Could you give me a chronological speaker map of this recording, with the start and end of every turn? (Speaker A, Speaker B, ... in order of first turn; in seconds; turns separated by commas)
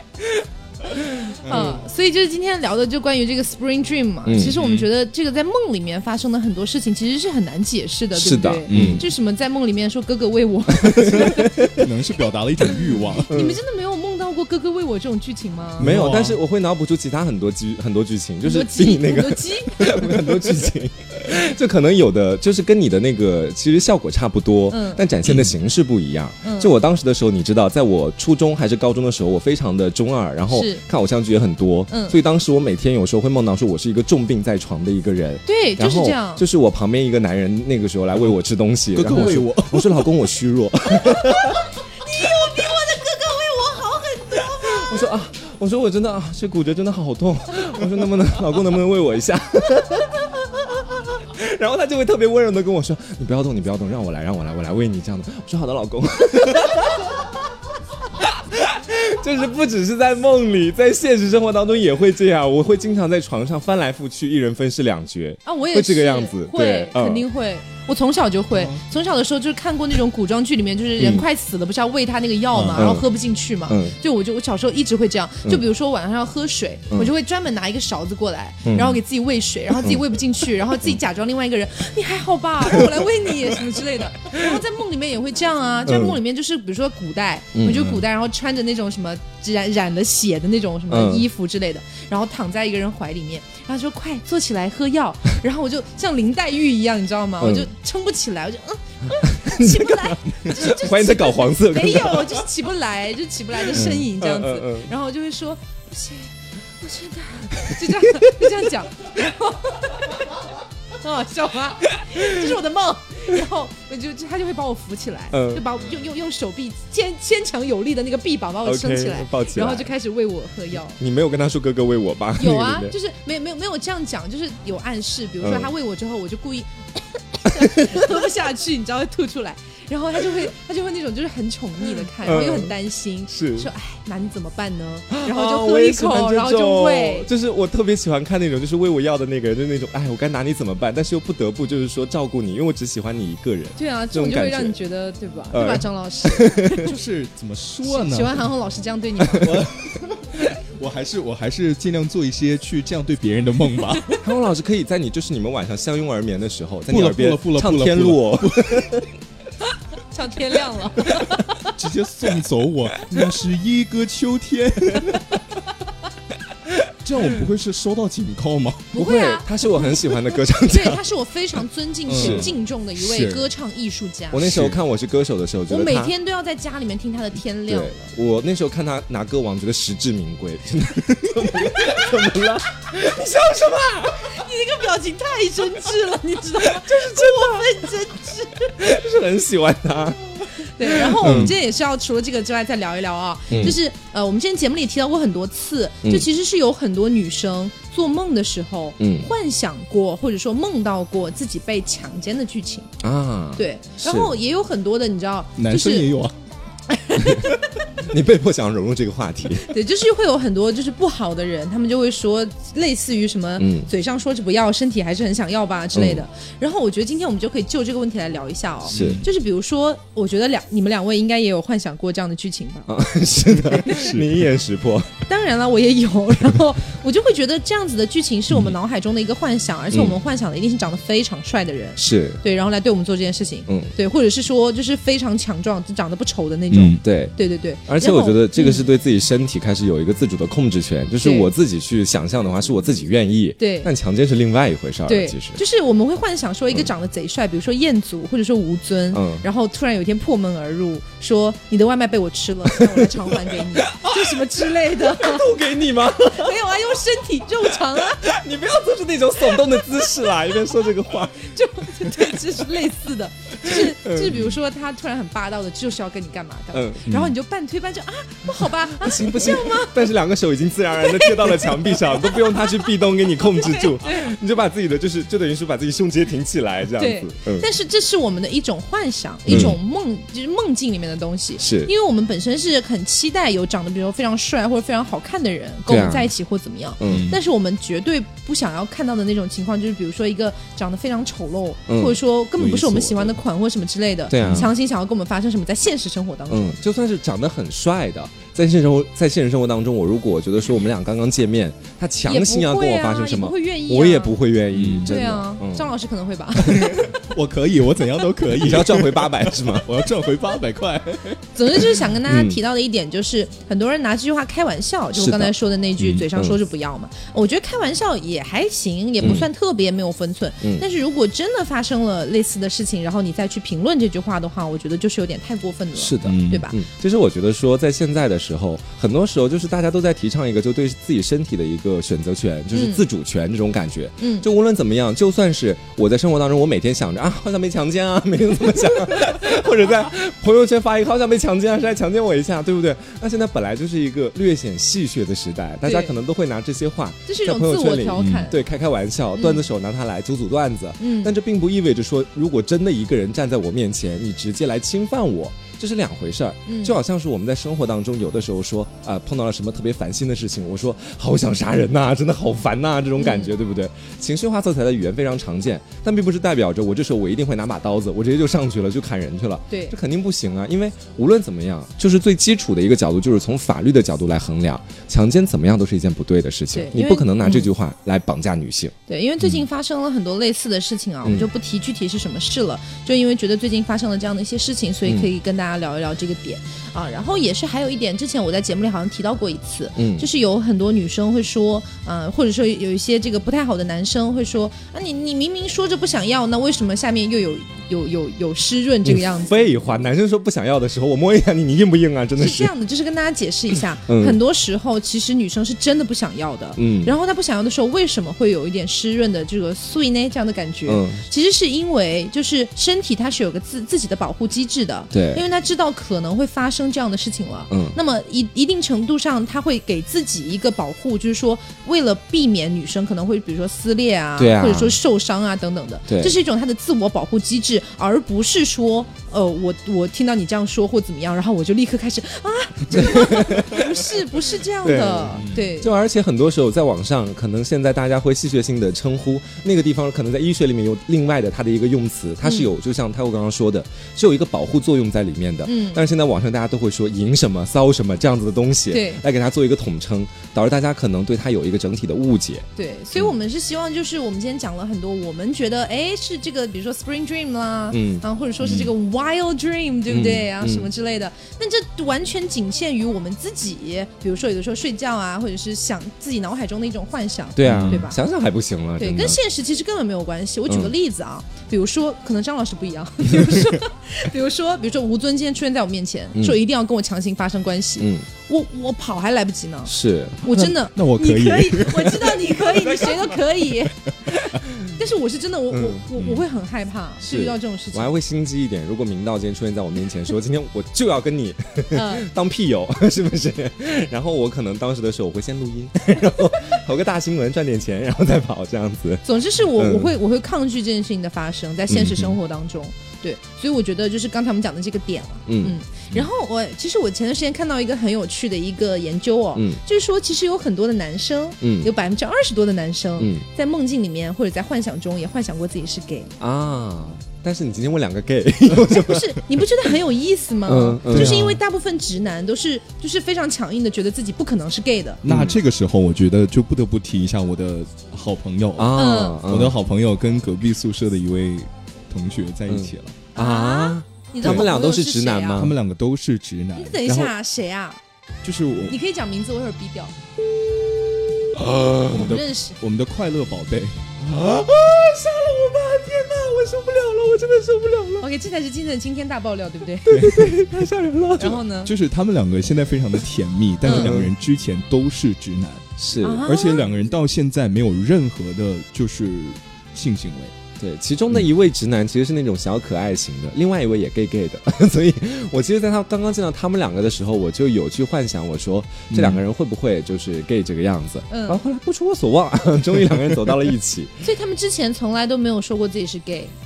Speaker A: 1.3-11.8, Speaker B: 1.4-1.8, Speaker C: 4.3-4.6, Speaker B: 4.4-4.9, Speaker C: 8.1-9.1, Speaker B: 8.7-9.0, Speaker C: 10.7-11.9, Speaker B: 11.1-13.3, Speaker A: 13.2-15.9, Speaker C: 13.3-13.6, Speaker B: 15.8-16.4, Speaker C: 15.8-41.6, Speaker A: 18.4-20.4, Speaker A: 24.7-25.1, Speaker A: 26.4-26.7, Speaker A: 30.5-30.8, Speaker A: 31.9-32.2, Speaker A: 35.5-36.4, Speaker B: 38.9-40.1, Speaker A: 41.1-45.0, Speaker C: 44.6-57.5, Speaker C: 58.1-67.2, Speaker A: 65.5-110.3, Speaker C: 71.0-71.2, Speaker C: 72.7-73.0, Speaker C: 73.7-73.9, Speaker C: 78.7-79.0, Speaker C: 85.9-86.2, Speaker C: 87.5-88.0, Speaker C: 90.9-91.3, Speaker C: 97.4-97.7, Speaker C: 99.3-102.5, Speaker C: 103.7-104.9, Speaker C: 107.6-108.3, Speaker A: 111.0-121.0, Speaker C: 115.3-115.7, Speaker C: 118.6-119.9, Speaker C: 121.0-122.9, Speaker A: 122.4-137.3, Speaker C: 125.4-125.7, Speaker C: 127.5-128.0, Speaker C: 132.2-132.7, Speaker C: 133.3-133.7, Speaker C: 135.1-144.8, Speaker A: 143.8-146.9, Speaker C: 145.5-146.9, Speaker B: 146.8-148.5, Speaker A: 147.8-149.7, Speaker B: 149.3-154.2, Speaker C: 154.2-159.1, Speaker B: 156.9-159.0, Speaker A: 160.1-161.7, Speaker B: 161.7-165.4, Speaker B: 167.0-168.9, Speaker A: 168.9-169.9, Speaker C: 168.9-171.0, Speaker A: 170.7-174.4, Speaker B: 172.1-173.5, Speaker C: 172.1-172.5, Speaker C: 174.3-176.1, Speaker B: 174.4-174.8, Speaker A: 175.7-178.1, Speaker C: 177.7-184.4, Speaker A: 184.3-188.7, Speaker C: 186.6-187.9, Speaker C: 188.8-190.2, Speaker A: 190.6-202.9, Speaker C: 190.8-191.5, Speaker B: 191.2-191.5, Speaker C: 193.5-193.8, Speaker C: 199.0-199.3, Speaker C: 203.0-204.3, Speaker A: 203.6-206.1, Speaker B: 205.6-206.3, Speaker A: 206.9-207.6, Speaker C: 208.1-209.7, Speaker A: 209.6-223.0, Speaker C: 213.6-213.9, Speaker C: 215.9-216.2, Speaker B: 218.9-219.3, Speaker C: 218.9-219.2, Speaker C: 222.9-225.2, Speaker B: 223.7-224.3, Speaker A: 223.8-224.2, Speaker A: 225.3-238.9, Speaker C: 232.0-232.4, Speaker C: 233.7-233.9, Speaker B: 236.7-237.0, Speaker C: 237.0-237.3, Speaker C: 237.9-245.6, Speaker A: 241.2-241.5, Speaker A: 243.6-243.9, Speaker A: 245.1-255.5, Speaker C: 249.1-249.5, Speaker C: 252.8-253.1, Speaker C: 253.6-256.7, Speaker A: 256.3-258.2, Speaker C: 257.9-261.6, Speaker A: 261.4-270.0, Speaker C: 263.6-264.5, Speaker C: 266.7-267.2, Speaker B: 267.1-267.3, Speaker C: 268.7-277.7, Speaker A: 271.0-272.9, Speaker A: 273.4-274.3, Speaker A: 277.0-296.8, Speaker C: 279.5-279.8, Speaker C: 281.6-281.9, Speaker C: 285.9-286.3, Speaker C: 287.0-287.3, Speaker B: 287.1-287.4, Speaker C: 291.9-292.2, Speaker B: 292.6-293.4, Speaker C: 294.3-294.7, Speaker B: 294.4-294.7, Speaker C: 296.5-305.9, Speaker A: 302.2-304.4, Speaker B: 304.7-305.1, Speaker A: 305.1-307.1, Speaker B: 306.7-311.4, Speaker C: 308.6-309.9, Speaker A: 311.6-326.8, Speaker C: 312.3-312.6, Speaker C: 315.1-315.5, Speaker B: 316.0-316.2, Speaker C: 319.2-319.5, Speaker C: 326.0-378.9, Speaker B: 326.2-326.7, Speaker A: 332.7-333.0, Speaker A: 334.2-334.5, Speaker A: 345.9-346.1, Speaker A: 347.3-348.6, Speaker B: 348.1-348.5, Speaker A: 349.4-349.7, Speaker A: 351.0-351.3, Speaker A: 356.7-357.0, Speaker A: 363.2-363.5, Speaker A: 369.7-369.9, Speaker A: 376.7-377.7, Speaker A: 379.1-399.7, Speaker C: 390.0-390.3, Speaker C: 399.1-402.7, Speaker A: 402.4-435.9, Speaker C: 404.1-404.4, Speaker C: 406.8-407.2, Speaker C: 410.9-411.2, Speaker C: 415.1-415.4, Speaker C: 417.7-418.0, Speaker C: 424.4-425.0, Speaker C: 426.1-426.3, Speaker C: 432.9-433.9, Speaker C: 434.8-453.3, Speaker B: 435.4-435.7, Speaker A: 442.4-442.7, Speaker A: 445.6-446.0, Speaker A: 448.9-449.2, Speaker A: 452.8-468.2, Speaker C: 457.9-458.2, Speaker B: 458.6-458.9, Speaker C: 460.1-460.9, Speaker C: 467.6-469.4, Speaker B: 467.6-468.0, Speaker A: 469.0-488.1, Speaker C: 478.0-478.3, Speaker C: 479.9-480.4, Speaker B: 480.5-482.5, Speaker C: 485.7-486.1, Speaker B: 486.2-486.4, Speaker C: 487.2-500.1, Speaker A: 491.9-492.3, Speaker A: 499.2-516.3, Speaker C: 501.9-502.2, Speaker C: 505.5-506.2, Speaker C: 511.6-511.9, Speaker C: 516.4-519.6, Speaker A: 518.9-525.2, Speaker C: 520.7-521.6, Speaker B: 521.1-521.5, Speaker B: 525.2-533.2, Speaker C: 525.3-525.6, Speaker C: 528.8-529.8, Speaker A: 528.9-529.4, Speaker C: 532.7-535.8, Speaker A: 533.4-535.6, Speaker B: 535.6-537.3, Speaker A: 536.8-538.0, Speaker B: 538.4-539.0, Speaker A: 538.9-540.1, Speaker C: 540.4-542.3, Speaker B: 541.6-544.1, Speaker A: 542.1-542.8, Speaker C: 544.2-548.2, Speaker A: 548.2-550.3, Speaker C: 550.1-551.6, Speaker B: 550.1-550.5, Speaker A: 551.4-551.9, Speaker B: 551.9-555.9, Speaker A: 553.8-554.1, Speaker C: 553.9-554.3, Speaker C: 556.0-556.5, Speaker A: 556.2-556.9, Speaker B: 556.5-560.5, Speaker C: 560.8-574.2, Speaker B: 569.1-569.4, Speaker A: 571.3-571.6, Speaker A: 574.2-576.5